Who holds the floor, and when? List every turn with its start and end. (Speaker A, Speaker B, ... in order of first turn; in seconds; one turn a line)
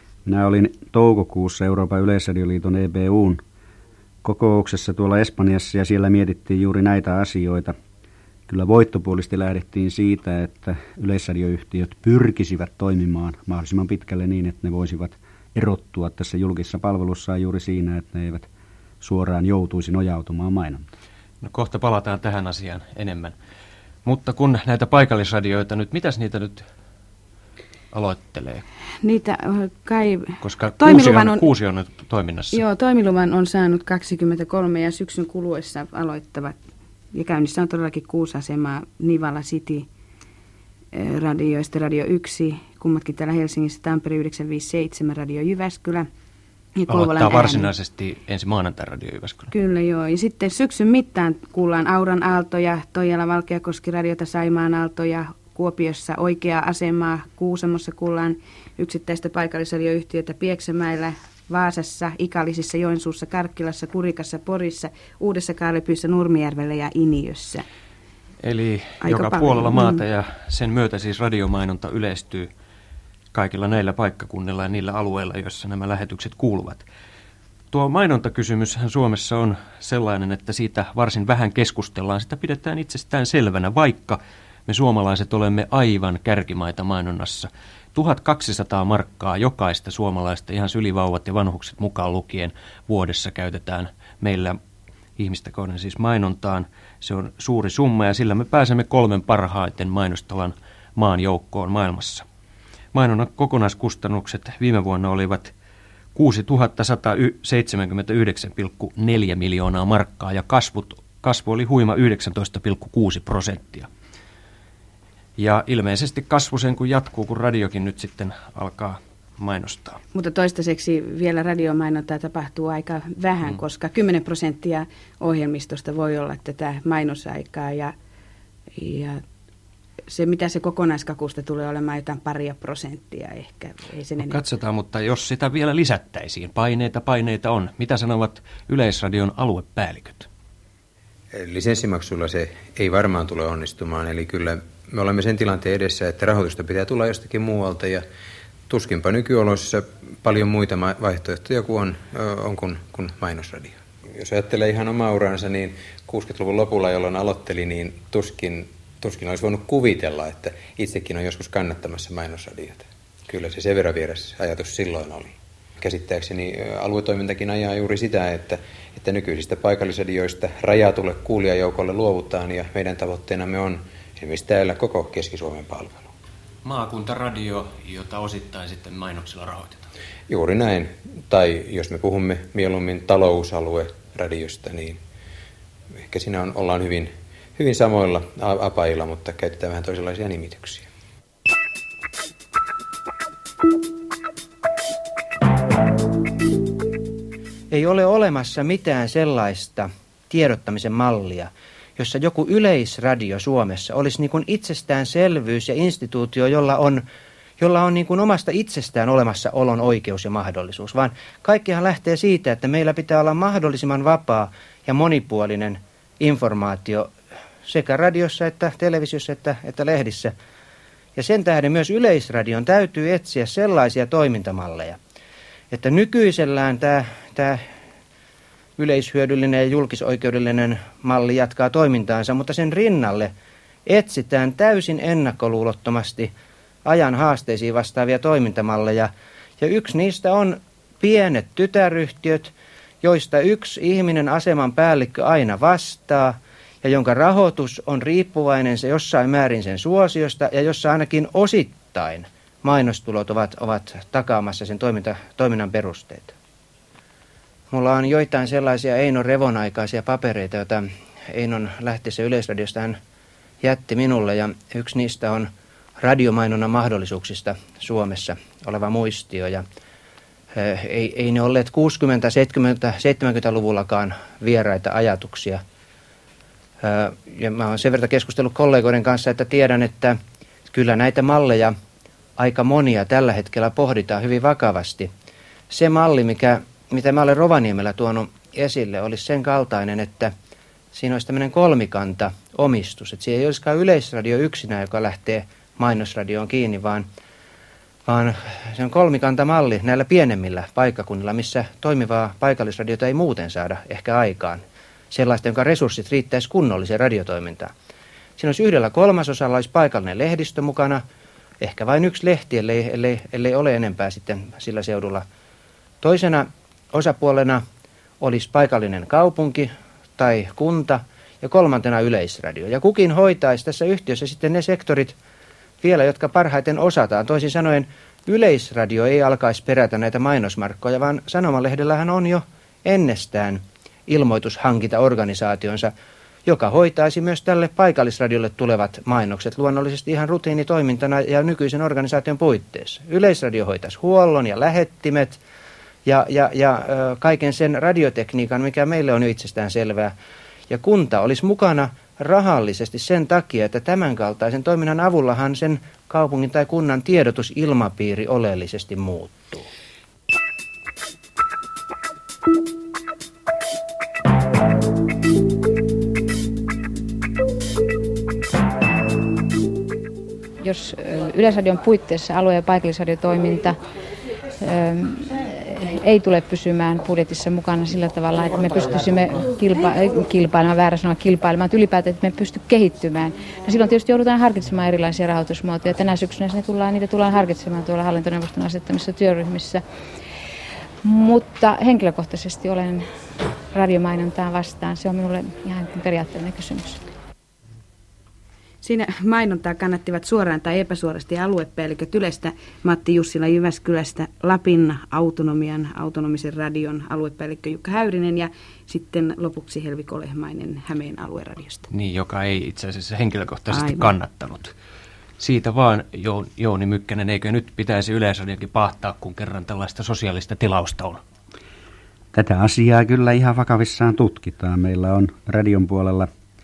Speaker A: 0.2-3.4
Speaker A: 4.2-7.7
Speaker A: 8.5-18.5
Speaker A: 19.0-20.9
Speaker B: 21.4-23.3
Speaker B: 24.0-26.7
Speaker B: 27.9-28.6
Speaker C: 29.0-31.5
Speaker B: 30.4-32.6
Speaker C: 32.5-36.6
Speaker C: 37.1-39.9
Speaker C: 40.9-46.1
Speaker C: 46.8-47.7
Speaker B: 46.9-49.5
Speaker C: 49.5-67.6
Speaker B: 68.4-72.5
Speaker C: 69.0-70.0
Speaker B: 73.3-76.8
Speaker B: 77.7-94.6
Speaker B: 95.2-102.2
Speaker B: 102.9-105.5
Speaker B: 106.1-113.9
Speaker B: 115.4-120.0
Speaker C: 120.1-127.9
Speaker C: 128.7-129.2
Speaker C: 130.1-134.4
Speaker B: 134.2-140.3
Speaker D: 141.3-148.0
Speaker D: 148.7-176.1
Speaker B: 176.6-179.9
Speaker D: 180.3-185.0
Speaker D: 185.9-190.8
Speaker E: 197.7-207.0
Speaker E: 207.6-217.1
Speaker E: 217.6-220.3
Speaker E: 221.2-225.0
Speaker E: 225.7-227.6
Speaker E: 228.8-233.3
Speaker E: 233.8-236.3
Speaker E: 236.8-256.3
Speaker E: 257.7-263.0
Speaker E: 263.6-269.6
Speaker E: 270.5-275.6
Speaker E: 276.8-281.7
Speaker E: 282.4-285.1
Speaker E: 285.7-290.3
Speaker E: 290.9-297.1
Speaker E: 298.1-307.7
Speaker E: 308.4-311.0
Speaker E: 311.6-315.2
Speaker E: 316.0-317.6
Speaker E: 318.2-325.1
Speaker E: 325.8-335.9
Speaker E: 336.4-345.4
Speaker E: 346.1-350.1
Speaker E: 350.7-359.7
Speaker F: 370.6-373.8
Speaker F: 374.6-389.8
Speaker F: 391.0-393.1
Speaker F: 393.7-397.0
Speaker C: 398.8-411.9
Speaker B: 411.9-414.7
Speaker C: 413.7-414.1
Speaker B: 415.4-421.2
Speaker A: 422.3-426.3